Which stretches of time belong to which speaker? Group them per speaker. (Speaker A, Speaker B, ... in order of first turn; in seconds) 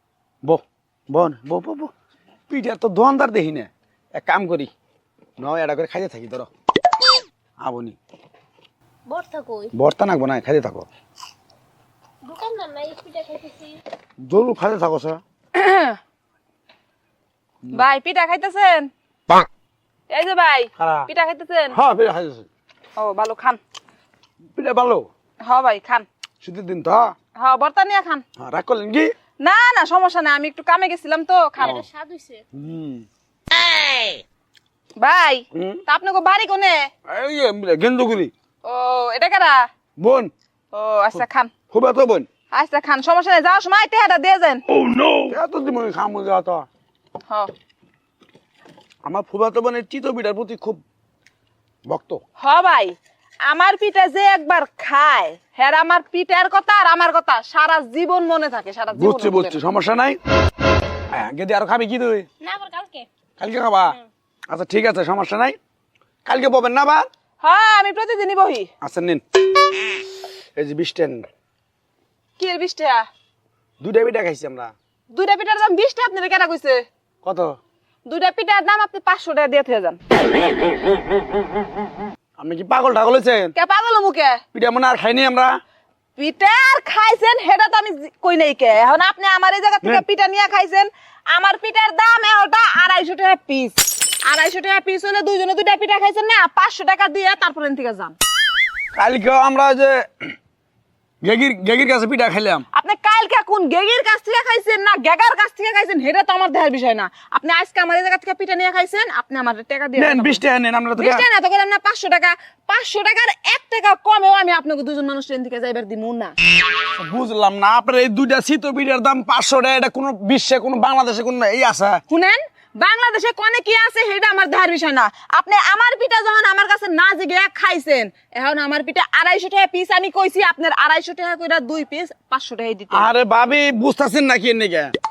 Speaker A: 0.4-1.9, 2.5-4.7, 5.4-6.5, 7.6-8.0, 9.7-10.9, 14.2-15.2, 20.8-21.1, 21.7-22.5, 24.6-25.1, 26.4-27.1, 28.4-29.1, 32.5-33.0, 35.5-35.8, 37.1-38.3, 40.0-40.3, 41.1-42.3, 44.7-46.7, 49.0-50.8, 51.9-52.2, 58.9-60.2, 61.1-62.2, 63.4-64.0, 64.5-65.6, 66.2-67.1, 68.8-69.2, 70.6-71.2, 73.8-74.7, 77.2-77.5, 82.4-83.5, 84.5-85.6, 98.9-100.2, 101.2-102.6, 110.0-111.2, 116.9-122.0, 132.9-134.9
Speaker B: 9.1-9.7, 12.2-13.8, 31.6-32.4, 62.4-63.1
Speaker C: 15.5-16.0, 17.7-18.9, 20.1-21.8, 23.0-23.6, 25.4-26.1, 27.4-28.2, 29.4-31.8, 35.0-36.9, 38.6-39.7, 40.7-41.5, 42.5-44.6, 52.4-53.0, 53.5-59.6, 67.4-68.7, 72.4-73.1, 75.1-76.8, 78.1-80.0, 83.5-84.4, 86.2-98.2, 102.7-110.4, 111.0-116.3, 122.1-133.1